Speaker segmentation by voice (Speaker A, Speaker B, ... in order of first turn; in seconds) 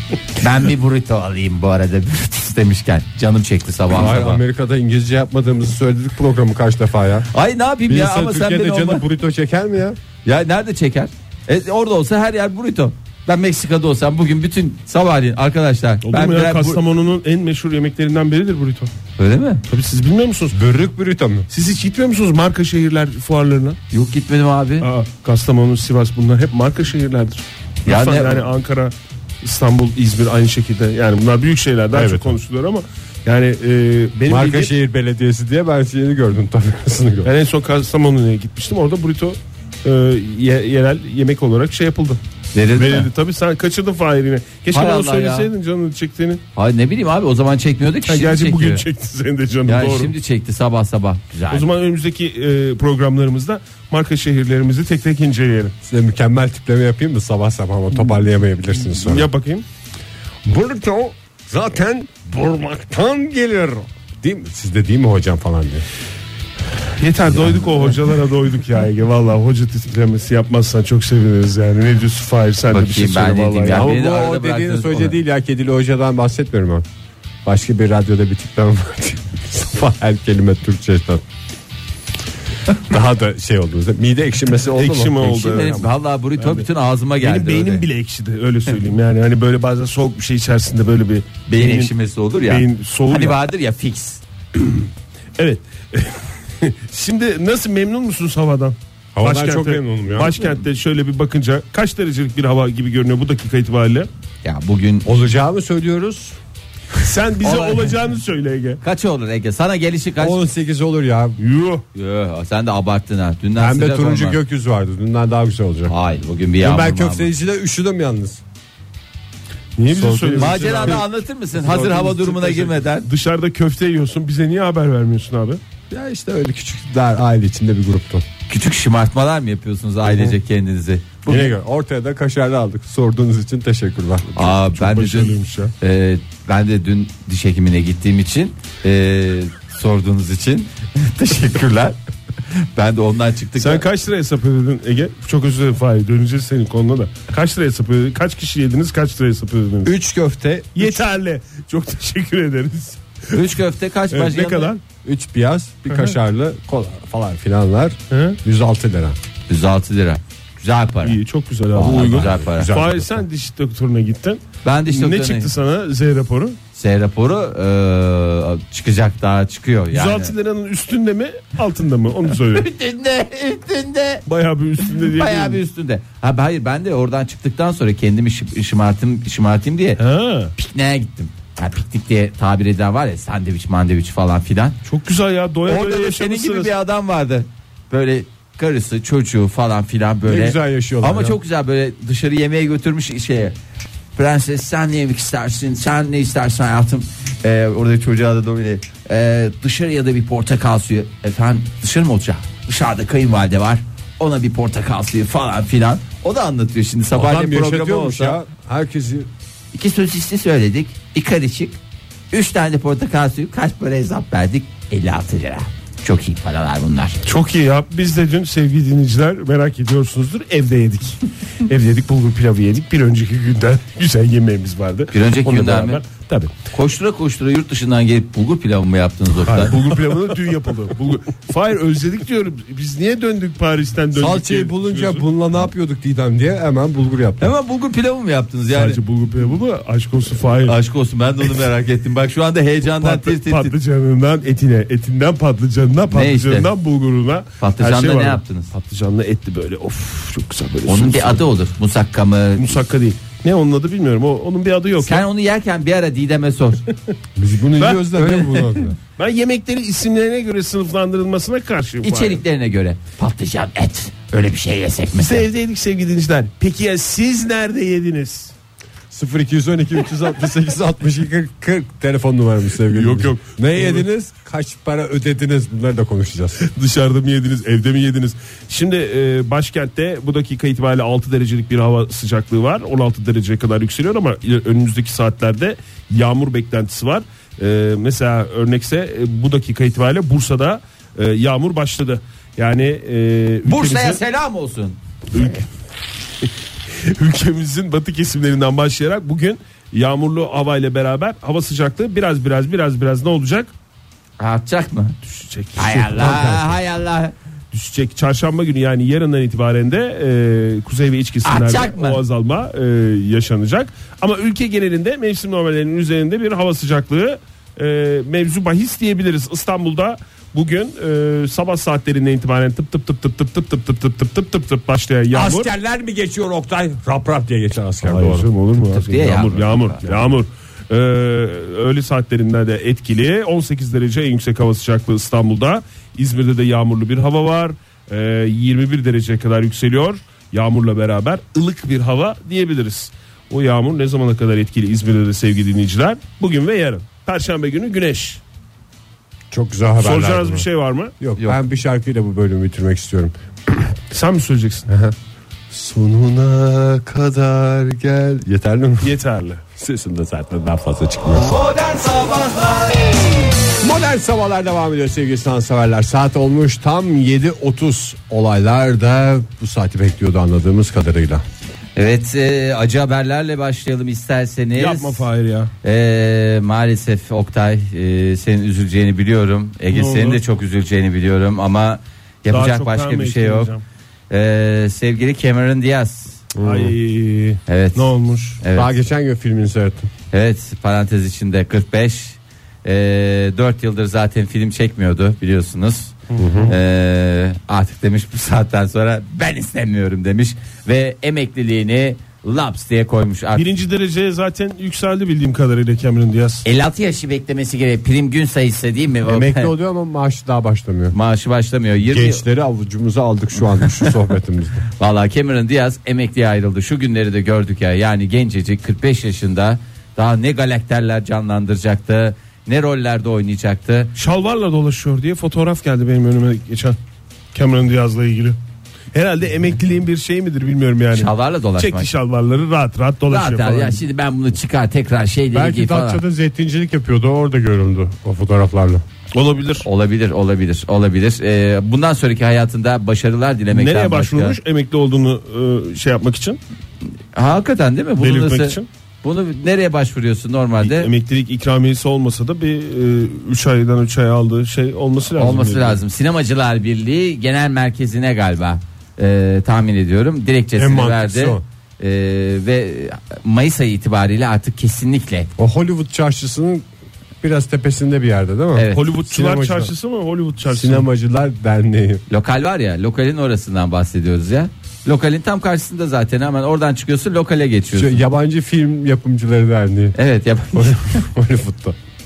Speaker A: 0.4-4.4, 7.3-9.0, 10.2-16.8, 19.2-19.6, 23.9-24.9, 27.9-28.4, 42.5-43.1, 44.7-45.5, 46.5-48.8, 49.6-51.6, 72.7-75.2, 85.2-87.9, 91.5-94.2, 104.4-105.1, 107.4-107.8, 108.8-110.4, 111.9-114.4, 115.9-117.3, 120.4-123.1, 128.5-131.3, 134.3-142.0, 142.5-143.8, 153.3-154.7, 159.5-161.2, 161.7-162.8, 164.6-165.5, 166.7-170.3, 172.5-174.2, 175.1-180.0, 180.6-184.8, 185.7-193.5, 194.1-208.4, 209.7-211.8, 212.3-217.2, 225.1-226.0, 226.7-229.7, 237.4-239.0, 240.6-243.7, 246.1-246.7, 247.6-248.7, 250.8-252.7, 255.0-256.8, 258.1-258.6, 262.0-265.5, 293.6-295.0, 304.4-305.1, 305.8-307.3, 311.4-312.2, 328.9-330.0, 351.4-351.6, 361.5-363.0, 371.9-375.2, 375.8-383.7, 384.3-386.4, 387.7-388.1, 388.6-388.9, 390.3-403.7, 406.6-409.7, 411.1-412.4, 413.9-414.1, 415.0-424.1, 431.1-432.1, 433.3-436.2, 439.8-444.6, 447.3-451.1, 455.4-465.5, 468.7-469.0, 472.3-478.2, 480.1-481.2
Speaker B: 3.9-7.3, 7.9-10.0, 20.5-21.5, 31.9-32.4, 34.2-37.3, 55.8-59.3, 60.5-65.8, 73.7-76.8, 77.4-81.2, 82.9-85.9, 99.1-100.3, 105.0-106.4, 110.2-111.4, 113.6-115.9, 116.6-118.4, 119.8-121.0, 125.9-128.2, 130.0-130.4, 131.2-134.3, 149.8-151.0, 155.0-159.2, 161.8-163.2, 190.3-191.4, 207.1-209.3, 234.1-237.5, 257.4-258.9, 269.1-276.6, 306.1-306.7, 325.3-328.5, 349.5-350.7, 351.2-353.9, 354.9-355.1, 355.7-359.1, 359.8-361.6, 363.8-371.4, 386.5-386.9, 388.7-390.1, 396.4-396.7, 409.2-411.1, 412.0-414.8, 435.5-439.0, 460.8-461.6, 465.6-466.9, 467.4-469.9, 470.6-472.2, 477.9-480.1, 480.7-481.9
Speaker C: 16.0-18.9, 19.7-20.6, 21.5-23.8, 24.8-34.7, 37.2-42.2, 42.7-46.4, 48.0-50.1, 51.5-55.7, 58.8-59.6, 67.0-73.9, 84.7-85.8, 86.4-86.7, 87.2-91.9, 92.5-93.4, 95.4-104.1, 107.0-108.8, 111.4-111.8, 119.8-121.0, 121.6-125.6, 134.3-135.7, 143.6-149.9, 150.7-153.5, 154.1-154.8, 155.9-156.2, 158.1-158.4, 161.0-166.6, 169.9-172.7, 174.2-175.6, 180.0-180.5, 184.8-186.7, 217.2-226.5, 229.4-235.2, 238.7-240.8, 242.9-251.4, 252.6-255.2, 257.8-258.1, 259.1-262.4, 265.1-268.5, 272.9-274.0, 276.6-294.2, 295.3-295.6, 297.0-303.7, 305.2-306.6, 307.7-325.7, 328.0-348.4, 350.0-351.1, 354.1-354.9, 359.0-359.6, 374.7-375.7, 379.9-380.4, 382.5-383.8, 386.6-388.6, 396.3-396.7, 403.5-406.6, 424.1-427.0, 427.5-428.6, 429.1-434.0, 439.3-439.9, 443.7-446.6, 448.2-448.9, 450.8-456.0, 468.9-471.1